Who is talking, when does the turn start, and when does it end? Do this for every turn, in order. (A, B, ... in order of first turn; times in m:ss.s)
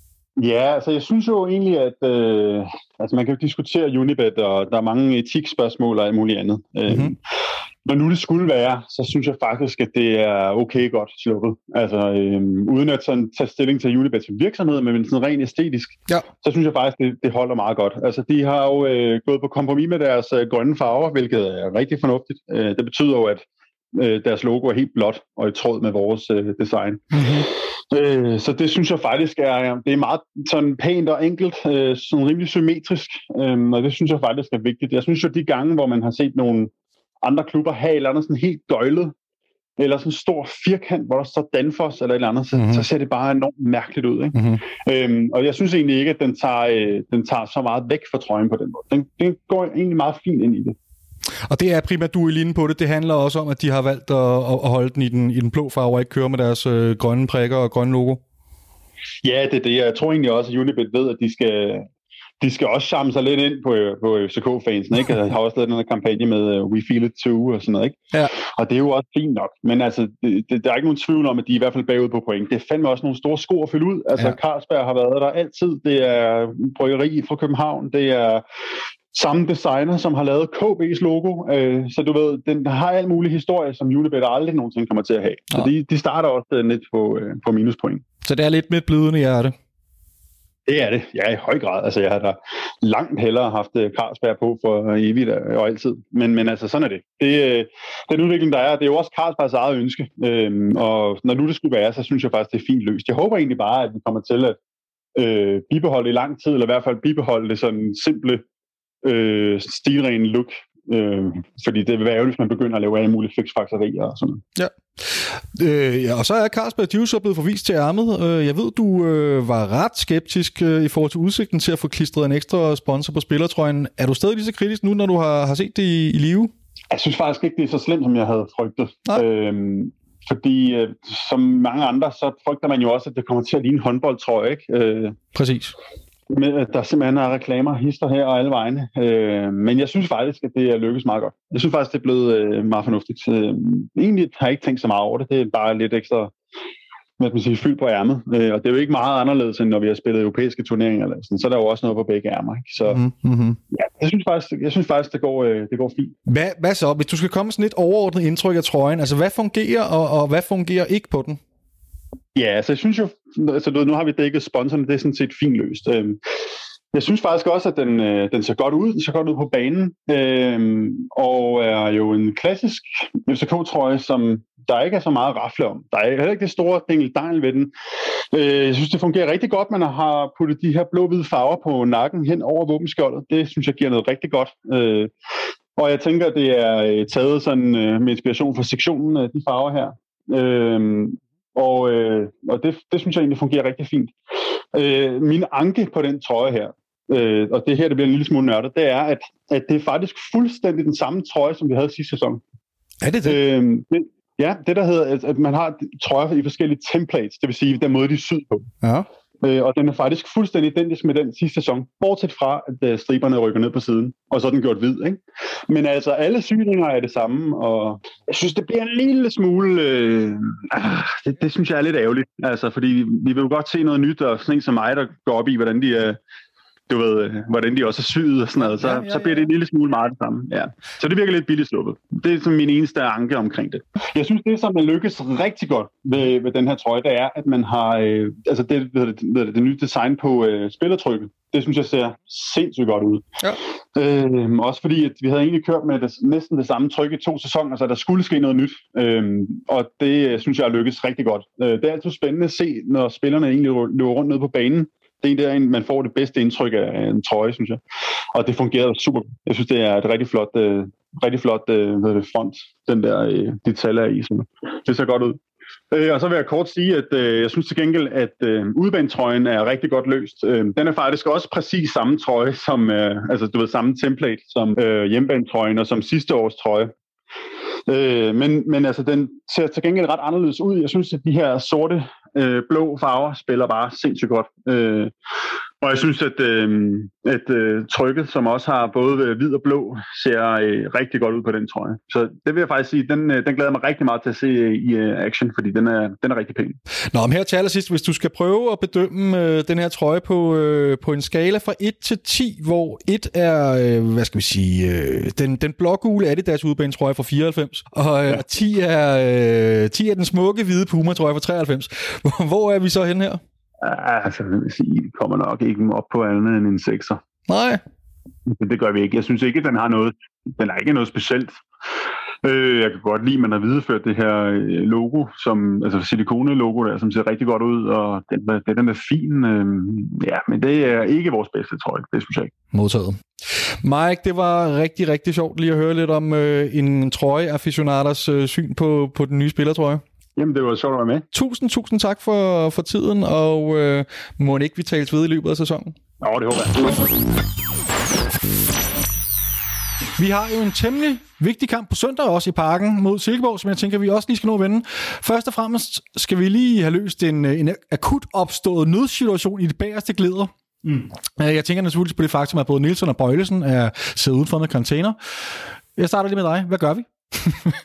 0:00.4-0:07.2 A
0:06.9-0:07.1 B
0:07.8-0:36.7 A
0:27.1-0:27.5 B
0:37.2-0:39.1 A
0:39.8-0:50.8 A
0:42.5-0:42.8 B
0:44.3-0:44.6 B
0:51.5-0:58.2 B
0:59.2-1:01.9 A
1:02.4-1:18.4 A
1:19.1-1:28.0 A
1:28.2-1:29.5 B
1:30.7-1:44.6 A
1:45.2-1:48.4 A
1:49.0-1:54.4 A
1:54.6-2:06.5 B
2:06.9-2:15.2 A
2:15.3-2:15.7 B
2:16.3-2:26.3 A
2:27.2-2:33.0 A
2:32.8-2:33.6 B
2:33.7-2:36.1 A
2:36.3-2:41.4 B
2:42.3-2:46.2 A
2:46.9-2:57.7 A
2:58.3-3:05.1 A
3:05.8-3:14.1 A
3:14.7-3:22.4 A
3:23.0-3:23.4 B
3:23.2-3:28.7 A
3:28.8-3:29.1 B
3:29.4-3:46.2 A
3:46.9-4:03.4 A
3:48.6-3:49.5 B
4:03.9-4:17.8 A
4:18.3-4:36.9 A
4:37.9-4:45.1 A
4:45.8-4:56.8 A
4:57.1-5:13.4 B
5:13.8-5:17.2 A
5:17.4-5:17.8 B
5:18.5-5:21.6 A
5:22.4-5:32.5 A
5:32.7-5:40.0 B
5:40.4-5:41.2 A
5:41.3-5:46.0 B
5:46.2-5:46.9 A
5:50.2-6:00.5 B
6:01.4-6:07.8 B